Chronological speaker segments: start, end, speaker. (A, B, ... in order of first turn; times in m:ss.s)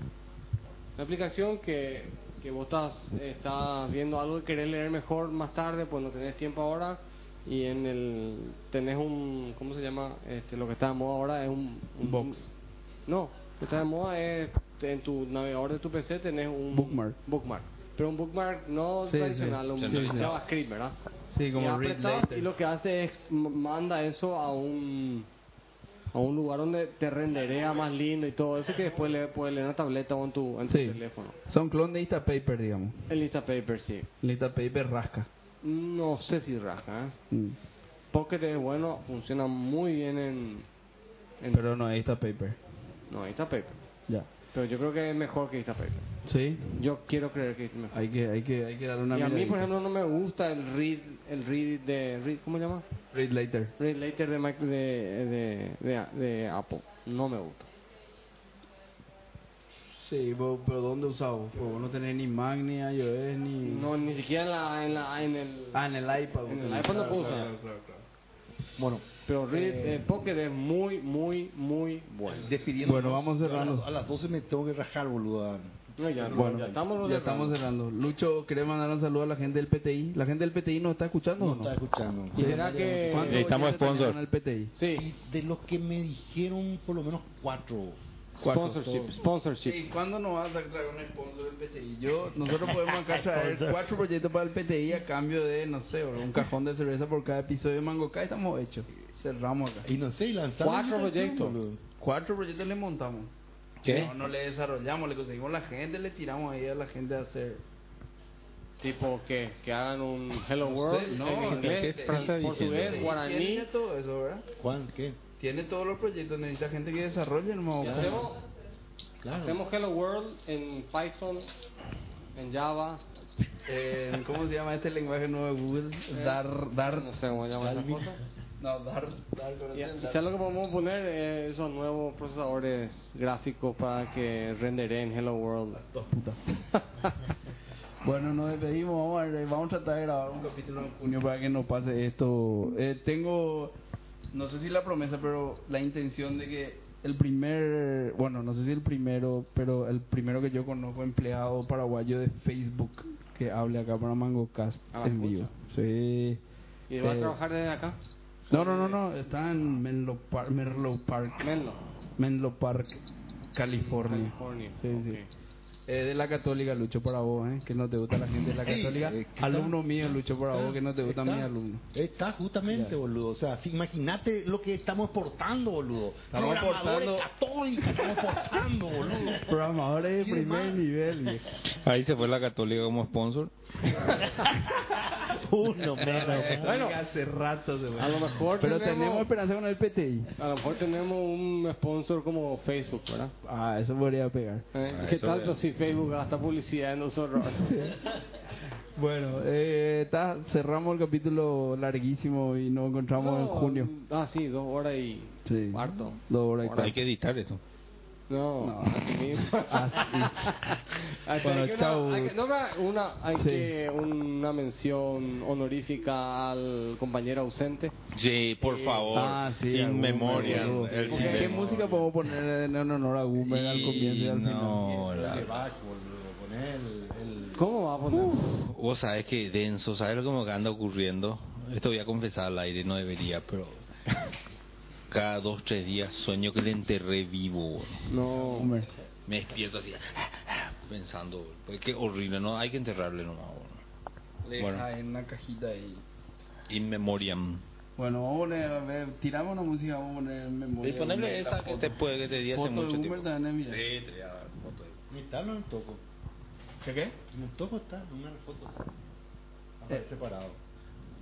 0:01.0-0:12.5 A
0:12.0-0:12.5 B
0:13.1-0:21.0 A
0:16.7-0:17.2 B
0:19.1-0:20.4 B
0:19.8-0:20.4 C
0:21.3-0:22.5 B
0:21.6-0:25.3 A
0:26.1-0:31.4 A
0:30.7-0:33.1 B
0:33.1-0:34.1 A
0:34.2-0:35.3 B
0:35.6-0:37.2 A
0:37.3-0:37.6 B
0:38.1-0:40.7 A
0:41.5-0:42.6 B
0:43.1-0:43.8 A
0:44.5-0:46.0 A
0:46.2-0:46.8 B
0:46.7-0:48.0 A
0:47.9-0:49.7 B
0:49.1-0:52.8 A
0:53.1-0:53.7 B
0:53.8-0:57.7 A
1:00.0-1:03.9 B
1:03.6-1:05.8 A
1:05.7-1:08.0 B
1:06.5-1:07.5 A
1:08.8-1:10.2 D
1:09.2-1:12.5 A
1:12.3-1:16.9 D
1:12.8-1:13.8 B
1:16.0-1:17.6 A
1:16.3-1:21.7 B
1:21.4-1:23.6 D
1:22.3-1:23.6 A
1:22.4-1:24.7 B
1:23.3-1:24.2 C
1:24.8-1:25.0 A
1:24.9-1:28.0 D
1:28.4-1:39.9 B
1:28.4-1:29.8 A
1:28.9-1:29.1 D
1:33.3-1:33.8 E
1:39.8-1:41.8 D
1:40.6-1:41.6 A
1:42.0-1:43.3 B
1:43.8-1:44.1 C
1:43.8-1:47.6 B
1:48.8-1:53.7 A
1:50.6-1:54.4 B
1:51.4-1:53.2 C
1:54.6-1:55.2 D
1:55.4-1:58.3 B
1:57.8-1:58.4 A
1:59.2-1:59.6 D
1:59.4-2:01.5 A
2:02.3-2:03.0 A
2:03.7-2:07.1 B
2:06.1-2:08.2 A
2:07.6-2:08.1 D
2:08.6-2:10.2 B
2:09.7-2:15.8 A
2:15.7-2:16.4 B
2:18.0-2:23.7 B
2:24.3-2:36.4 B
2:34.9-2:35.5 A
2:36.9-2:38.0 A
2:37.0-2:37.4 B
2:38.5-2:39.0 A
2:38.5-2:41.5 B
2:41.4-2:41.8 A
2:42.2-2:43.0 B
2:43.6-2:45.2 B
2:43.7-2:45.3 A
2:45.9-2:51.8 B
2:48.3-2:59.6 D
2:52.7-2:53.0 B
2:56.3-2:57.3 B
2:57.9-2:58.2 B
2:59.3-3:01.4 B
3:00.1-3:00.9 D
3:01.7-3:04.2 C
3:03.9-3:05.3 B
3:05.3-3:06.9 E
3:05.9-3:10.3 B
3:06.6-3:07.0 A
3:07.9-3:09.3 A
3:10.4-3:13.3 A
3:13.4-3:14.7 B
3:14.7-3:18.0 A
3:14.9-3:15.6 C
3:17.6-3:18.0 B
3:19.0-3:23.9 B
3:23.2-3:26.9 A
3:25.5-3:27.0 B
3:26.8-3:27.6 C
3:28.3-3:37.9 A
3:28.6-3:30.5 B
3:31.4-3:32.4 B
3:33.4-3:33.7 B
3:38.1-3:41.8 C
3:38.6-3:39.2 A
3:39.1-3:45.0 B
3:40.3-3:41.6 A
3:40.9-3:42.0 D
3:43.4-3:45.6 C
3:44.8-3:47.7 D
3:47.6-3:48.4 A
3:48.1-3:53.8 C
3:55.1-3:58.6 C
3:58.1-3:58.7 A
3:58.5-3:58.9 B
3:59.3-4:03.8 C
4:04.4-4:06.0 B
4:04.6-4:04.8 C
4:06.7-4:07.6 C
4:08.0-4:13.8 B
4:10.8-4:15.0 C
4:15.1-4:16.0 D
4:16.8-4:17.2 B
4:17.3-4:18.9 D
4:19.8-4:20.6 D